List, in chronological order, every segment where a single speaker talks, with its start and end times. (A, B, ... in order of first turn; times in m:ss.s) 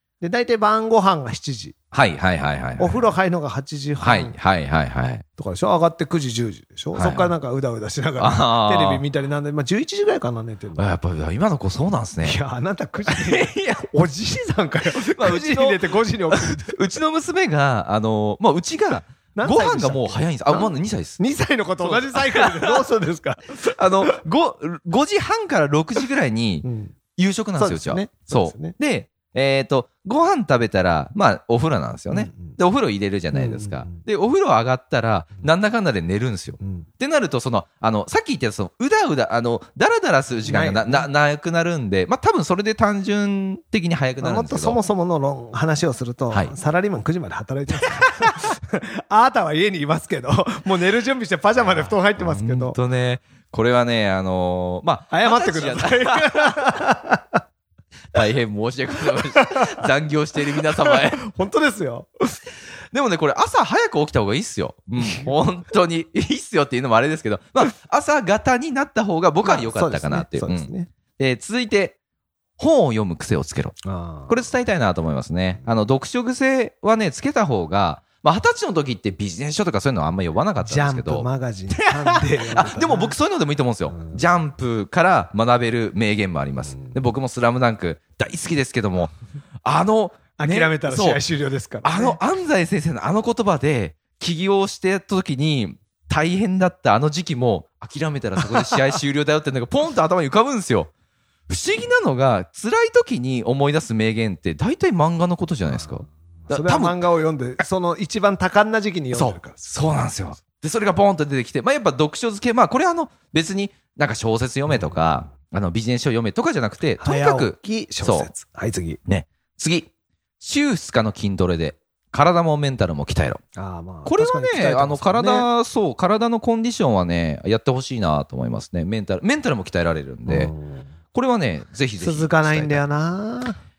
0:00.2-0:01.8 A
0:01.9-0:03.1 B
0:02.8-0:04.3 A
0:04.0-0:05.2 B
0:05.4-0:10.9 A
0:06.9-0:07.3 B
0:08.2-0:09.0 B
0:10.8-0:12.4 B
0:12.2-0:16.8 A
0:13.0-0:13.8 B
0:14.9-0:21.2 B
0:19.3-0:24.1 A
0:21.8-0:22.8 B
0:23.6-0:44.8 B
0:26.6-0:26.9 A
0:27.6-0:28.8 A
0:32.1-0:32.6 A
0:33.3-0:34.0 A
0:36.6-0:36.9 A
0:40.4-0:41.1 A
0:44.2-0:52.8 A
0:51.7-0:56.7 B
0:55.1-0:57.4 A
0:58.1-1:01.2 B
0:59.3-0:59.7 A
1:00.7-1:02.4 A
1:02.9-1:12.0 B
1:05.0-1:05.3 A
1:09.4-1:10.9 A
1:12.6-1:29.1 B
1:13.8-1:14.5 A
1:20.6-1:23.2 A
1:23.9-1:24.2 A
1:29.6-1:31.2 B
1:30.4-1:32.2 A
1:31.8-1:40.9 B
1:38.5-1:38.8 A
1:41.5-1:47.0 B
1:46.5-1:49.6 A
1:49.1-1:58.3 B
1:57.0-1:59.0 A
1:59.0-1:59.9 B
2:00.4-2:03.4 B
2:03.5-2:05.5 A
2:04.0-2:10.5 B
2:10.2-2:10.9 A
2:11.1-2:12.8 B
2:12.0-2:13.6 A